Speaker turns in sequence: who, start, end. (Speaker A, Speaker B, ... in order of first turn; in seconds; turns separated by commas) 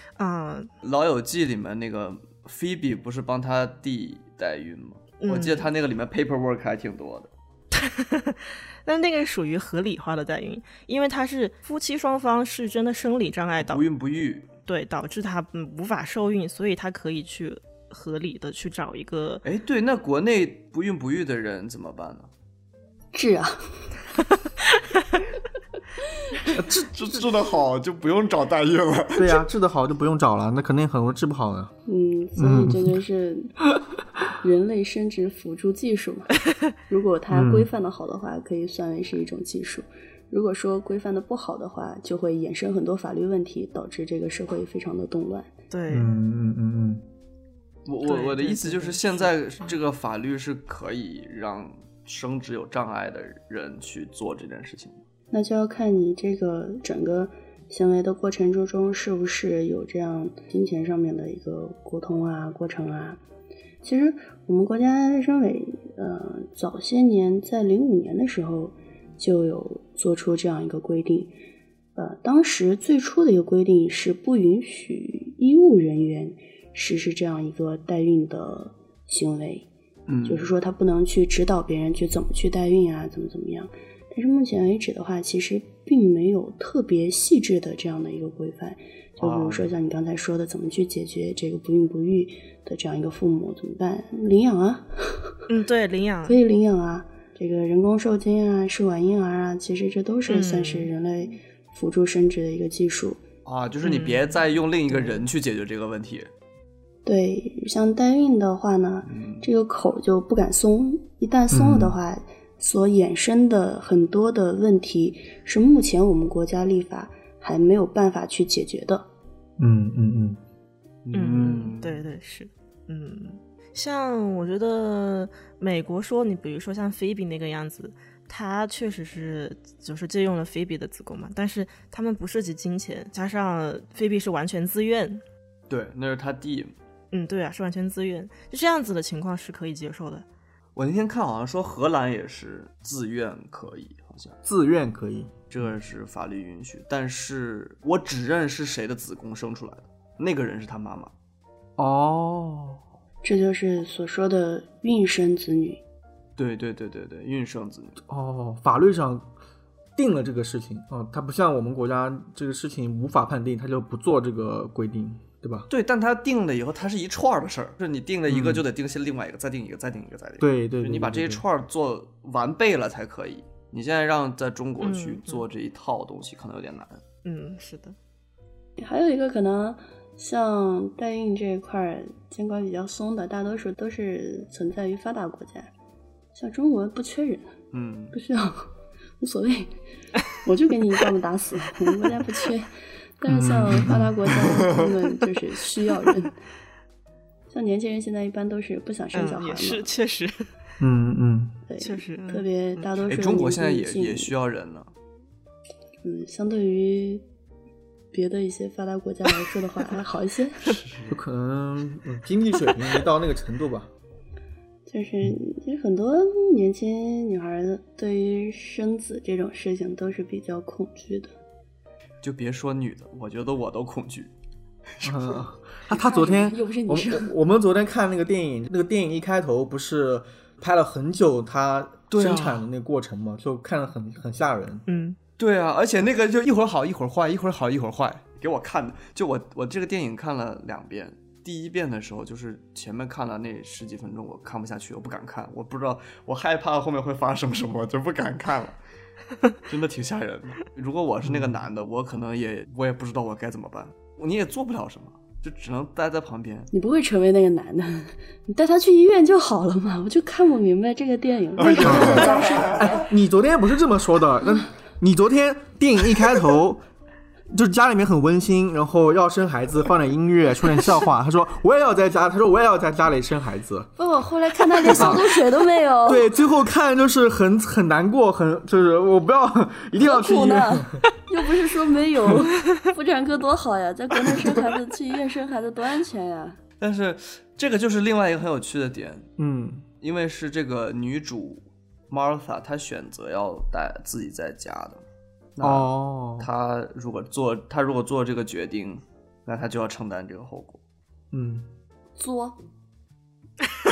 Speaker A: 0.2-0.7, Speaker B: 0.8-7.3, Speaker A: 5.2-5.7, Speaker A: 7.7-13.8, Speaker B: 13.6-14.5, Speaker A: 14.7-19.4, Speaker B: 19.4-22.3, Speaker C: 23.1-23.6, Speaker D: 26.5-27.1, Speaker B: 26.9-29.4, Speaker D: 29.1-31.7, Speaker C: 31.9-33.5, Speaker D: 32.4-33.0, Speaker C: 34.4-45.5, Speaker D: 37.3-37.7, Speaker A: 45.7-46.1, Speaker D: 45.9-47.0, Speaker B: 47.9-55.0, Speaker A: 48.0-49.7, Speaker C: 55.3-63.2, Speaker C: 63.8-71.3, Speaker C: 72.0-79.7, Speaker B: 80.1-80.5, Speaker C: 80.2-95.4, Speaker B: 89.2-89.7, Speaker A: 95.5-96.4, Speaker C: 96.3-103.2, Speaker A: 100.3-100.9, Speaker B: 103.4-106.3, Speaker A: 103.8-104.4, Speaker A: 104.9-105.2, Speaker C: 107.0-119.1, Speaker B: 109.0-109.5, Speaker D: 111.5-112.0, Speaker D: 119.6-120.4, Speaker B: 121.0-122.0, Speaker A: 121.1-135.2, Speaker B: 135.7-136.7, Speaker A: 137.1-140.2, Speaker B: 140.8-144.4, Speaker D: 144.4-145.3, Speaker B: 145.5-151.1, Speaker D: 151.8-152.8, Speaker C: 153.2-155.8, Speaker B: 156.4-158.0, Speaker D: 158.1-159.3, Speaker D: 159.9-165.7, Speaker B: 165.7-177.0, Speaker D: 168.3-168.6, Speaker D: 170.4-171.4, Speaker A: 174.8-175.4, Speaker A: 177.2-177.9, Speaker C: 178.8-185.7, Speaker C: 186.3-187.5, Speaker B: 187.7-188.2, Speaker C: 188.1-189.7, Speaker C: 190.3-196.3, Speaker D: 193.2-194.1, Speaker C: 197.5-199.9, Speaker A: 199.1-200.4, Speaker D: 200.8-201.6, Speaker C: 201.7-204.3, Speaker A: 201.8-202.9, Speaker B: 203.1-204.9, Speaker C: 206.0-207.2, Speaker C: 208.1-210.7, Speaker B: 210.6-211.2, Speaker D: 211.1-213.9, Speaker C: 214.9-221.3, Speaker B: 222.2-224.3, Speaker B: 225.0-225.4, Speaker D: 225.0-234.8, Speaker C: 225.9-227.3, Speaker B: 232.1-232.6, Speaker A: 234.9-235.2, Speaker B: 235.4-248.8, Speaker B: 249.7-256.7, Speaker D: 251.2-251.6, Speaker C: 256.7-262.9, Speaker B: 261.6-262.9, Speaker D: 261.8-266.8, Speaker D: 267.5-273.9, Speaker C: 274.0-276.3, Speaker D: 274.9-275.4, Speaker D: 276.0-281.0, Speaker C: 280.0-286.6, Speaker B: 286.8-289.3, Speaker D: 289.4-289.9, Speaker B: 290.0-295.0, Speaker B: 295.5-300.8, Speaker D: 295.6-296.5, Speaker D: 301.3-301.7, Speaker C: 302.2-302.6